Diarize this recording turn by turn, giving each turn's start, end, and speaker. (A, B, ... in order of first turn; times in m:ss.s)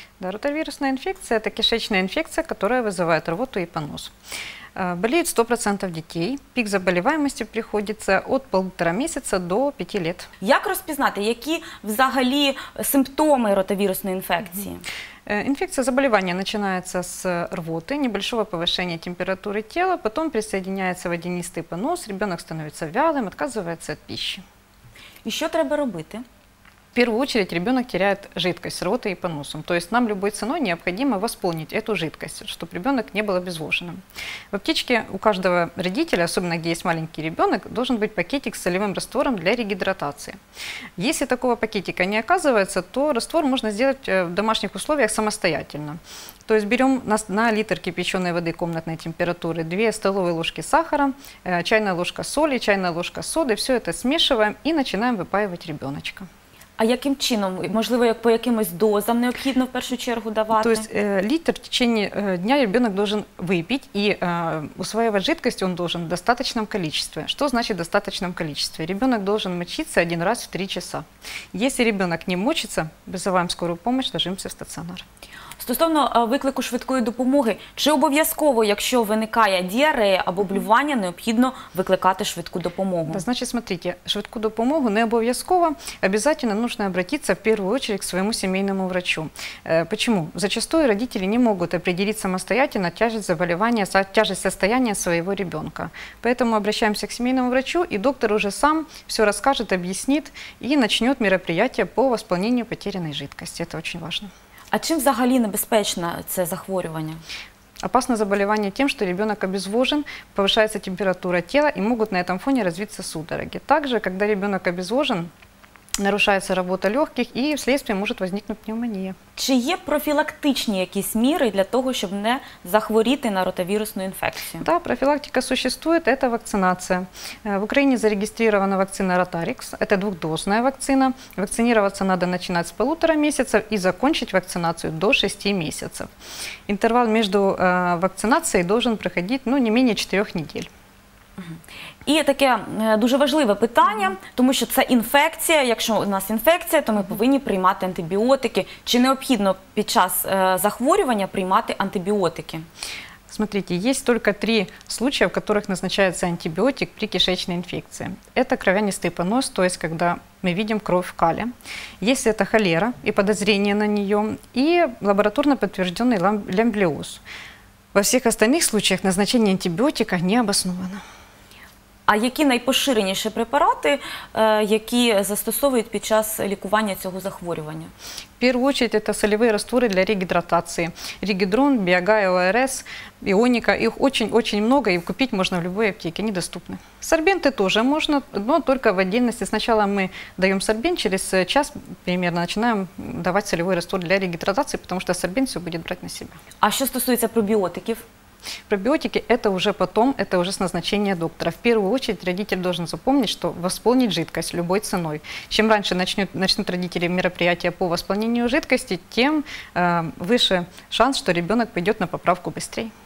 0:00.2-0:04.1 A
0:04.8-0:10.3 A
0:10.4-0:14.8 B
0:15.3-0:24.4 A
0:25.2-0:26.2 B
0:27.0-0:34.0 A
0:34.5-0:40.4 A
0:41.0-0:56.3 A
0:56.8-1:00.9 B
1:00.6-1:15.0 A
1:15.6-1:23.2 B
1:23.1-1:44.3 A
1:44.7-1:47.2 B
1:47.8-1:55.3 A
1:56.0-1:59.2 A
1:59.4-2:04.7 B
2:04.6-2:16.1 A
2:16.7-2:20.7 A
2:21.4-2:32.7 B
2:33.3-2:47.2 A
2:47.9-2:51.0 A
2:52.1-2:57.9 B
2:58.4-3:16.4 A
3:16.6-3:18.0 B
3:18.7-3:32.9 A